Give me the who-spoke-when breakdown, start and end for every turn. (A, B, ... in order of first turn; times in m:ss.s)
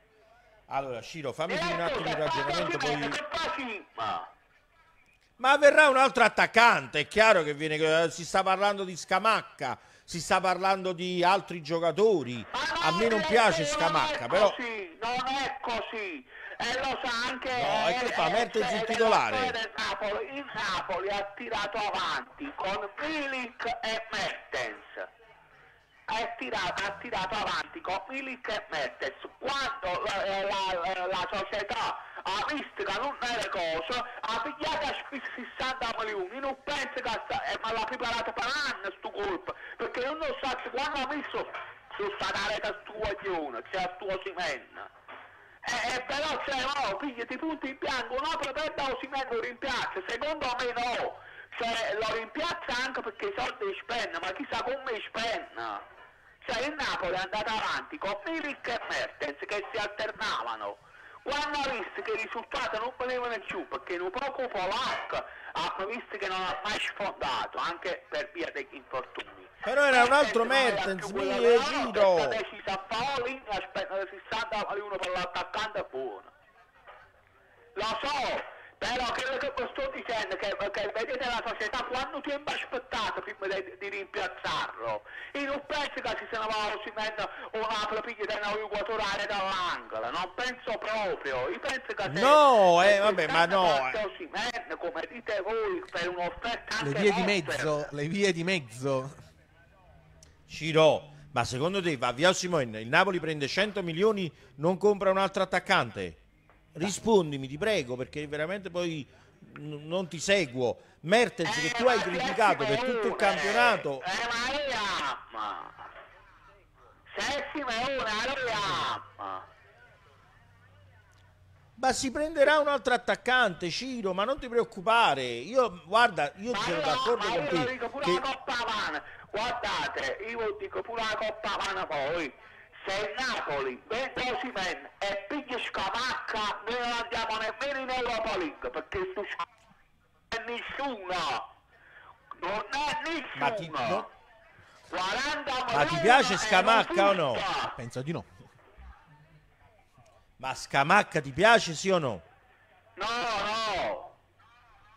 0:00.7-0:03.2 A
0:01.5-0:04.3 B
0:05.4-0:14.6 A
0:12.5-0:25.1 B
0:17.5-0:19.5 A
0:26.1-0:44.9 B
0:45.6-0:55.8 B
0:56.4-1:16.3 B
1:09.6-1:12.4 A
1:17.7-1:37.9 B
1:32.0-1:34.0 A
1:36.8-1:39.2 C
1:40.5-1:46.2 A
1:46.7-1:54.1 A
1:51.4-1:55.9 B
1:57.1-1:59.4 B
2:01.8-2:08.2 A
2:06.5-2:19.4 B
2:20.3-2:21.5 B
2:22.4-2:24.1 B
2:23.4-2:24.1 A
2:24.9-2:27.7 B
2:25.7-2:27.4 A
2:27.7-2:28.3 C
2:30.4-2:32.2 A
2:33.0-2:34.1 B